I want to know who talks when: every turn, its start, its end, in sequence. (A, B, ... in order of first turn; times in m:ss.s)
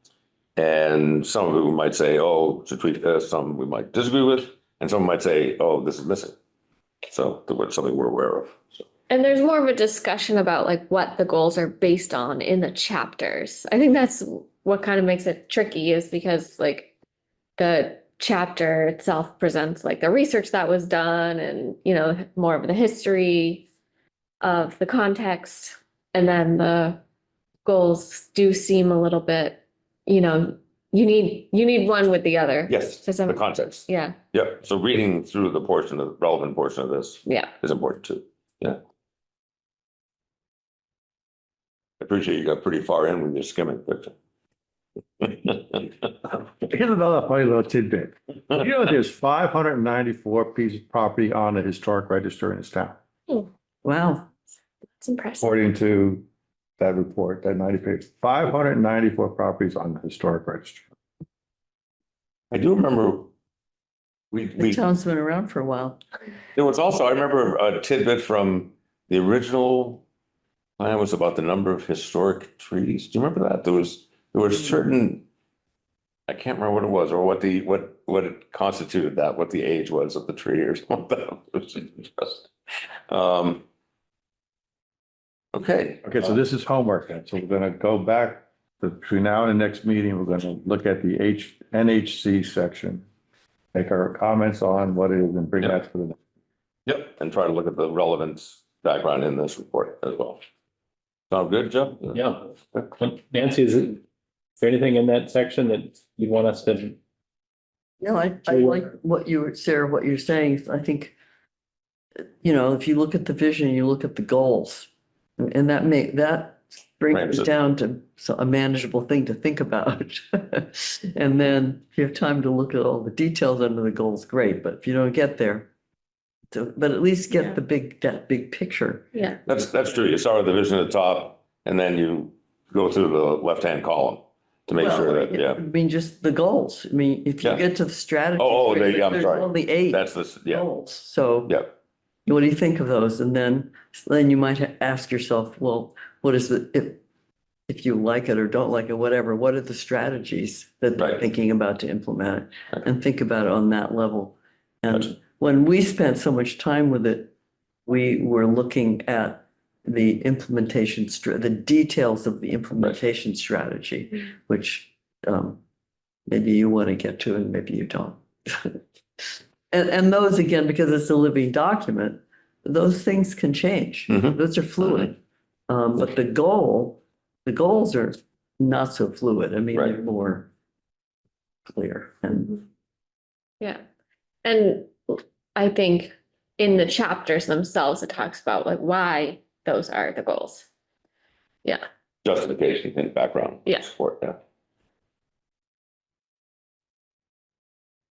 0:00.6-0:06.4 A
0:07.1-0:08.6 A
0:09.1-0:16.9 B
0:17.6-0:23.7 B
0:24.4-0:27.0 B
0:27.6-0:34.2 B
0:32.7-0:38.8 A
0:37.2-0:37.5 B
0:42.0-0:44.1 A
0:46.2-0:53.0 C
0:53.8-0:54.3 D
0:55.0-0:55.5 B
0:55.4-0:56.2 C
0:56.8-1:00.8 C
1:02.5-1:03.3 A
1:04.3-1:04.8 A
1:04.6-1:06.0 D
1:06.5-1:10.0 A
1:10.8-1:15.2 A
1:16.3-1:22.5 A
1:23.1-1:23.6 A
1:25.5-1:26.0 A
1:26.0-1:33.0 C
1:33.7-1:36.2 C
1:36.9-1:40.4 A
1:41.3-1:42.2 A
1:42.1-1:44.0 E
1:44.6-1:47.0 E
1:48.0-1:51.1 D
1:48.5-1:48.8 E
1:52.4-2:05.7 D
1:57.1-1:57.5 A
2:06.5-2:09.1 D
2:09.1-2:09.4 B
2:09.5-2:15.6 A
2:14.7-2:21.6 D
2:18.4-2:20.6 A
2:21.5-2:21.7 A
2:22.2-2:27.0 D
2:27.7-2:37.3 D
2:37.9-2:45.6 D
2:46.3-2:48.8 D
2:49.7-2:55.2 D
2:54.1-2:55.1 A
2:55.7-3:00.5 D
3:01.7-3:02.6 D
3:04.4-3:10.7 B
3:12.2-3:14.4 A